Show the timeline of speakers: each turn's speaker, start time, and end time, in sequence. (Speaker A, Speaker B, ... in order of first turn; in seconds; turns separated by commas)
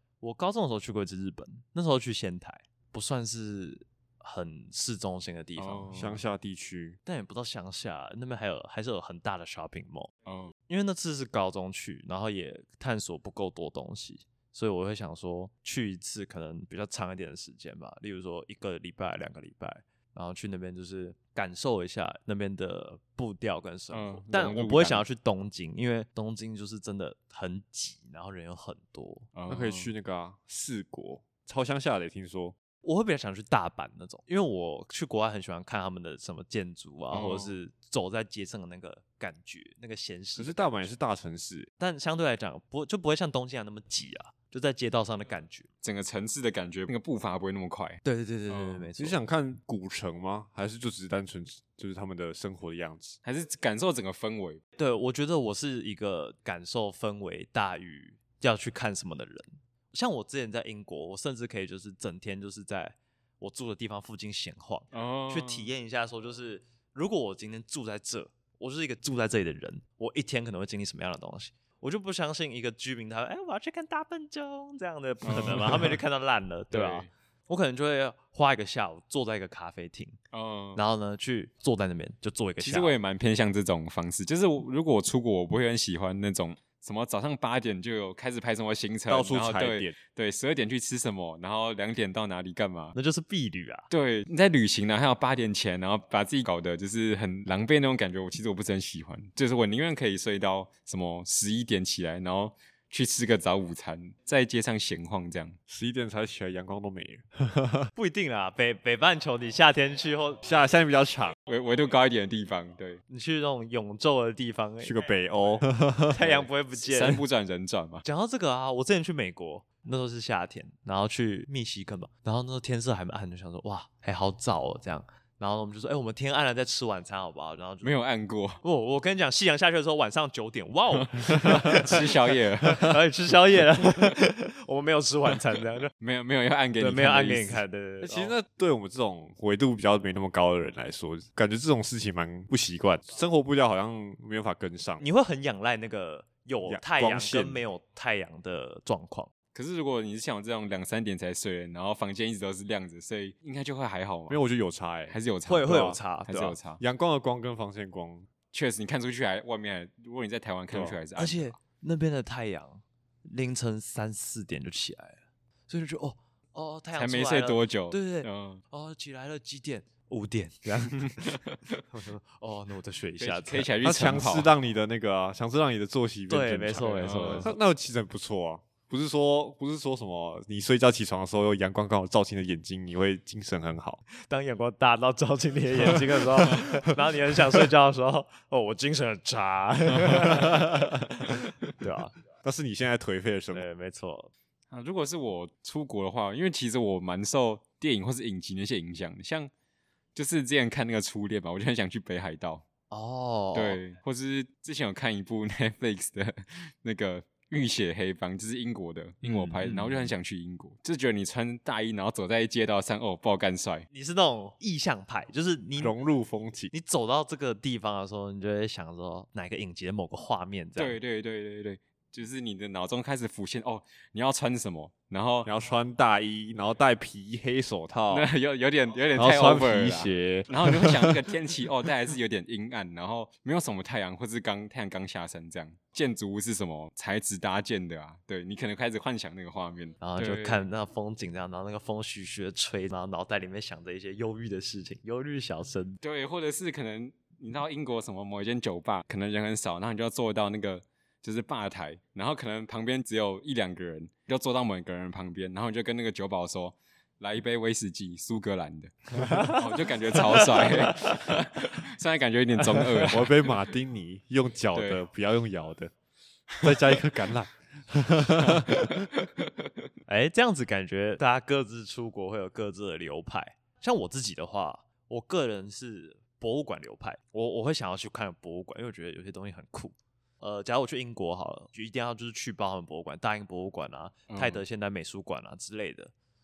Speaker A: 0.2-5.9, Speaker B: 5.6-6.2, Speaker C: 5.9-7.0, Speaker A: 7.1-10.1, Speaker B: 10.3-10.5, Speaker A: 10.7-29.3, Speaker B: 23.9-25.1, Speaker B: 29.4-29.9, Speaker C: 29.5-32.6, Speaker A: 32.8-40.8, Speaker B: 37.1-37.5, Speaker C: 40.4-41.7, Speaker A: 41.8-45.7, Speaker B: 45.8-48.9, Speaker A: 48.0-49.2, Speaker C: 49.0-53.2, Speaker B: 53.2-54.6, Speaker A: 54.8-80.2, Speaker B: 64.9-65.7, Speaker B: 75.2-76.0, Speaker B: 76.7-77.1, Speaker B: 80.3-80.8, Speaker A: 80.8-83.0, Speaker B: 82.6-93.0, Speaker C: 89.1-90.0, Speaker A: 93.0-93.9, Speaker B: 93.9-105.6, Speaker C: 105.7-107.9, Speaker A: 108.0-110.4, Speaker C: 110.4-111.4, Speaker B: 111.5-113.0, Speaker A: 113.1-115.0, Speaker C: 114.8-116.3, Speaker A: 116.1-117.2, Speaker B: 116.2-118.0, Speaker A: 118.0-128.0, Speaker B: 127.8-128.6, Speaker A: 128.6-135.9, Speaker B: 131.1-133.0, Speaker B: 136.0-137.6, Speaker A: 136.8-138.3, Speaker C: 138.0-145.0, Speaker A: 145.0-149.3, Speaker C: 146.7-147.6, Speaker B: 149.5-154.4, Speaker C: 154.3-155.2, Speaker B: 155.1-156.8, Speaker A: 155.5-156.6, Speaker C: 156.7-158.3, Speaker B: 158.5-161.6, Speaker C: 160.7-161.0, Speaker A: 161.2-171.4, Speaker B: 166.9-168.6, Speaker B: 170.9-171.6, Speaker A: 171.9-173.7, Speaker B: 173.2-174.5, Speaker C: 173.8-184.0, Speaker A: 176.3-177.6, Speaker B: 176.8-177.5, Speaker A: 184.1-192.2, Speaker C: 192.4-193.7, Speaker A: 193.5-194.3, Speaker B: 194.7-199.5, Speaker B: 200.2-202.6, Speaker A: 202.9-203.8, Speaker B: 203.5-213.9, Speaker A: 209.2-210.1, Speaker A: 213.9-216.0, Speaker C: 215.8-216.7, Speaker A: 216.7-221.0, Speaker B: 220.8-225.5, Speaker C: 225.4-228.3, Speaker B: 228.1-240.7, Speaker C: 229.2-231.3, Speaker A: 240.0-246.0, Speaker B: 246.0-263.5, Speaker A: 259.2-259.6, Speaker A: 260.3-261.4, Speaker C: 263.0-265.9, Speaker B: 264.7-265.0, Speaker B: 266.5-266.8, Speaker C: 266.6-269.1, Speaker B: 268.4-269.6, Speaker A: 270.1-286.1, Speaker B: 284.3-284.6